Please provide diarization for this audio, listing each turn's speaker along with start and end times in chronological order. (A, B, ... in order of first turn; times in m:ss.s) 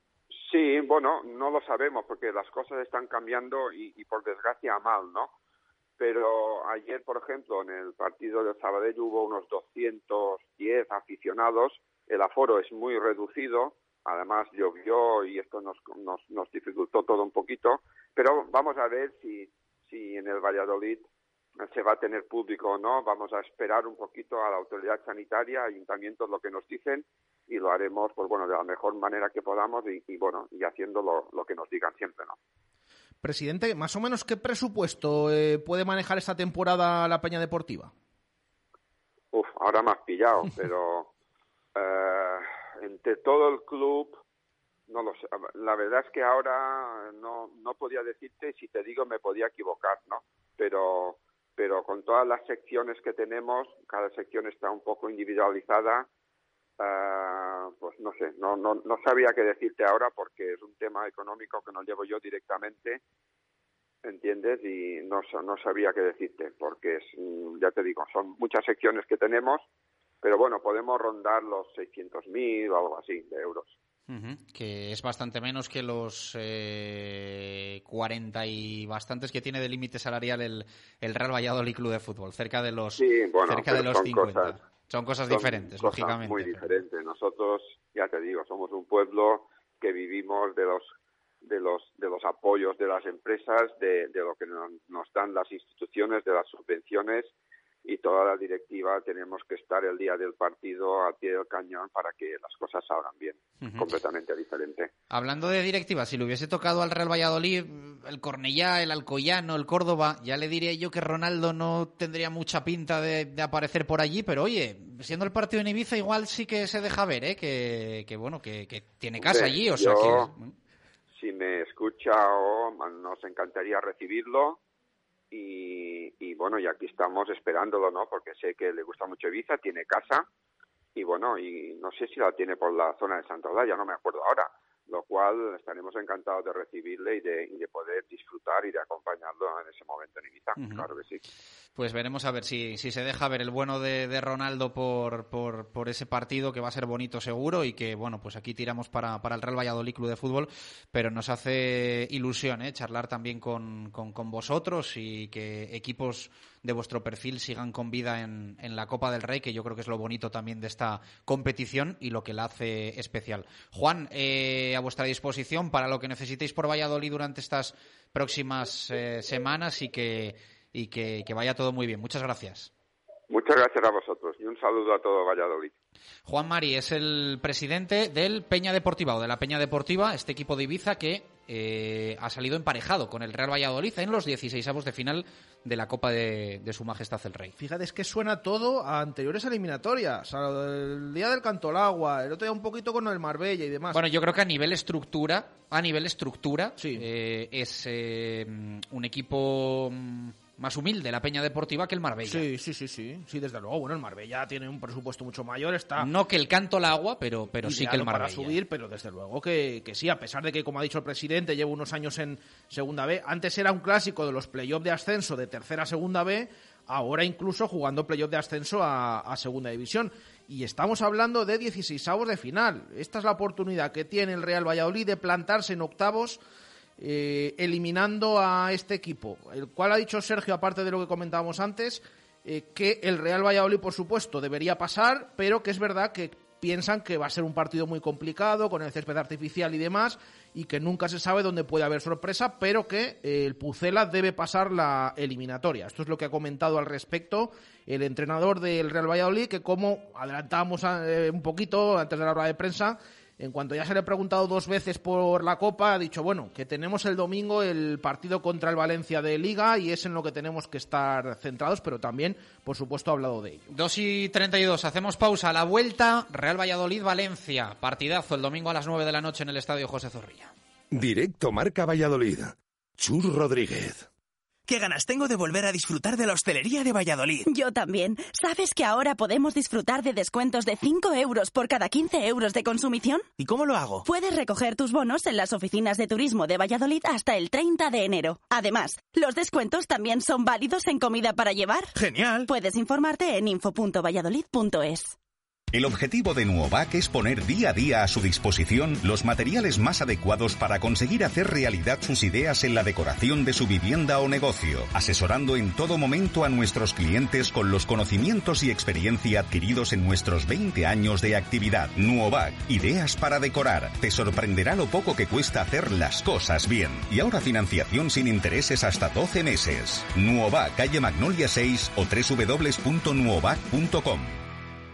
0:00.3-0:05.3 A
0:06.0-0:21.0 A
0:21.6-0:32.4 A
0:33.2-0:37.9 B
0:39.3-0:41.1 A
0:41.7-0:44.2 A
0:44.9-0:56.1 A
0:56.8-1:03.0 A
1:04.0-1:09.6 A
1:10.2-1:13.8 A
1:14.1-1:26.7 C
1:23.0-1:24.5 A
1:25.3-1:30.9 A
1:31.4-1:37.3 A
1:37.8-1:44.9 A
1:43.6-1:43.9 C
1:45.1-2:00.5 C
1:59.2-2:00.3 A
2:01.1-2:04.6 A
2:05.3-2:10.2 A
2:11.0-2:21.2 A
2:20.6-2:20.8 C
2:21.7-2:52.7 C
2:53.3-2:55.7 A
2:56.2-3:07.5 C
3:07.6-3:14.0 B
3:13.9-3:22.4 C
3:16.8-3:17.0 B
3:22.2-3:26.1 B
3:26.0-3:28.6 C
3:27.6-3:46.4 B
3:47.0-4:23.6 B
4:23.7-4:30.5 C
4:30.9-4:34.1 D
4:34.7-4:37.4 E
4:37.5-4:43.2 F
4:43.4-4:44.0 E
4:44.0-4:51.9 F
4:51.9-4:52.5 E
4:52.5-4:55.2 F
4:55.7-5:24.4 G